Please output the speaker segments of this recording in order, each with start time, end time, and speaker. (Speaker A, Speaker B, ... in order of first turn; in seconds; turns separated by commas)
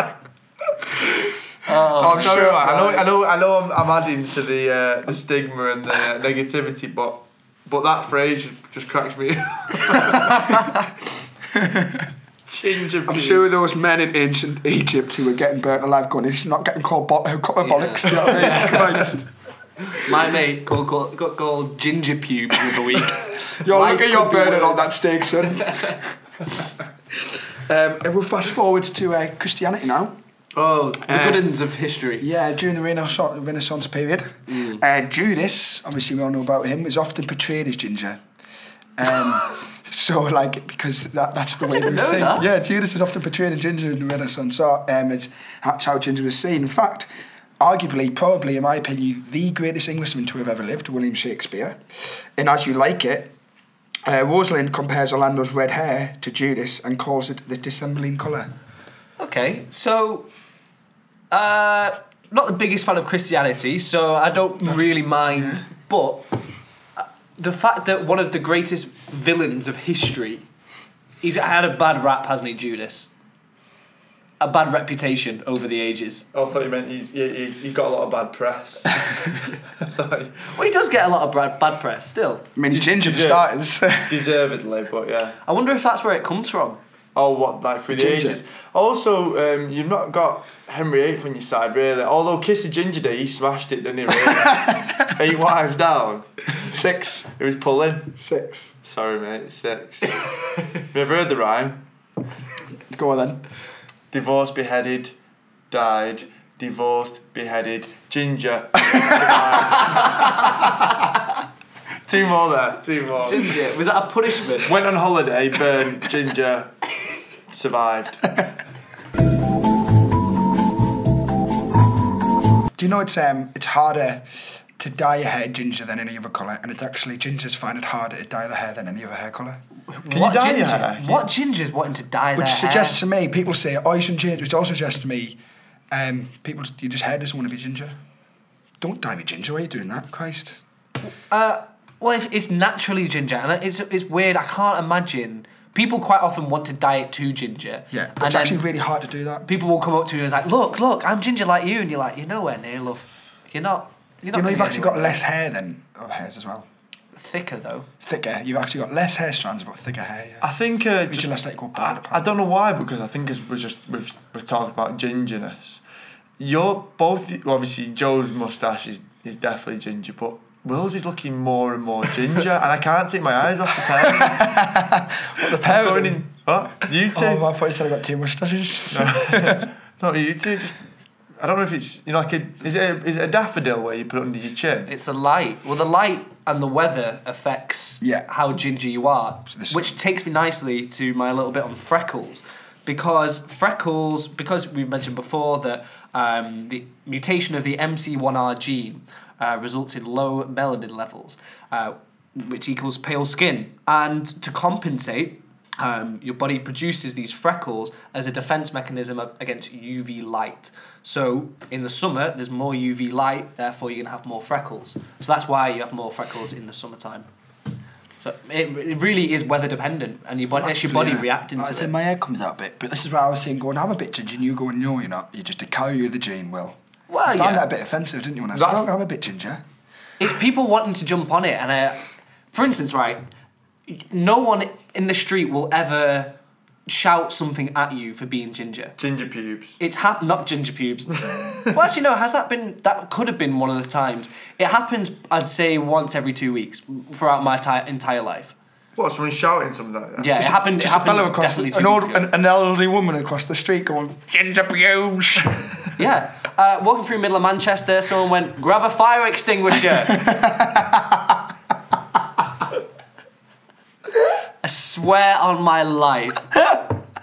Speaker A: 0.9-1.3, Speaker B: 1.6-2.9, Speaker A: 1.9-10.6, Speaker C: 2.0-3.0, Speaker B: 10.2-10.8, Speaker C: 11.5-12.1, Speaker A: 12.5-13.4, Speaker C: 13.1-19.3, Speaker B: 17.6-19.1, Speaker B: 19.8-26.0, Speaker C: 23.5-26.1, Speaker C: 27.3-30.1, Speaker B: 30.6-32.3, Speaker C: 31.1-31.5, Speaker C: 32.2-38.2, Speaker B: 34.5-34.8, Speaker C: 39.0-47.1, Speaker B: 41.6-42.5, Speaker C: 47.6-51.8, Speaker C: 52.4-53.3, Speaker C: 54.0-58.5, Speaker B: 59.2-60.3, Speaker B: 61.3-66.2, Speaker B: 67.0-70.5, Speaker B: 71.2-73.1, Speaker B: 74.4-76.3, Speaker A: 76.3-80.5, Speaker B: 80.5-82.5, Speaker C: 82.5-84.2, Speaker A: 82.7-85.4, Speaker B: 85.4-86.8, Speaker A: 87.1-96.3, Speaker C: 87.9-88.4, Speaker C: 96.6-97.3, Speaker A: 97.3-98.1, Speaker C: 98.2-98.7, Speaker A: 98.8-101.8, Speaker C: 102.9-103.4, Speaker A: 104.1-105.1, Speaker A: 105.7-110.6, Speaker A: 112.0-113.6, Speaker B: 113.2-114.7, Speaker A: 114.6-116.7, Speaker A: 117.5-118.3, Speaker C: 122.8-124.2, Speaker C: 124.8-129.6, Speaker B: 129.9-133.0, Speaker A: 130.1-131.2, Speaker C: 132.3-135.4, Speaker C: 135.9-138.0, Speaker C: 138.8-140.6, Speaker B: 141.3-148.6, Speaker C: 147.9-149.5, Speaker B: 149.4-155.2, Speaker C: 154.3-156.7, Speaker B: 157.1-157.9, Speaker C: 158.0-160.5, Speaker A: 160.4-165.8, Speaker C: 161.1-162.3, Speaker A: 166.4-174.6, Speaker C: 174.0-176.2, Speaker A: 175.5-177.4, Speaker C: 177.1-179.7, Speaker A: 178.9-180.8, Speaker A: 181.4-184.9, Speaker B: 184.9-217.3, Speaker C: 188.0-188.2, Speaker C: 189.5-189.9, Speaker B: 218.2-221.9, Speaker C: 220.5-226.8, Speaker B: 227.1-227.7, Speaker C: 227.3-229.6, Speaker A: 228.5-228.9, Speaker B: 230.2-232.0, Speaker B: 232.5-233.2, Speaker B: 233.9-236.3, Speaker B: 236.9-238.9, Speaker A: 239.0-239.8, Speaker B: 239.8-248.5, Speaker A: 241.3-241.7, Speaker A: 248.9-250.3, Speaker B: 250.2-252.3, Speaker C: 250.3-255.7, Speaker B: 256.0-260.3, Speaker C: 260.0-261.4, Speaker B: 264.6-266.5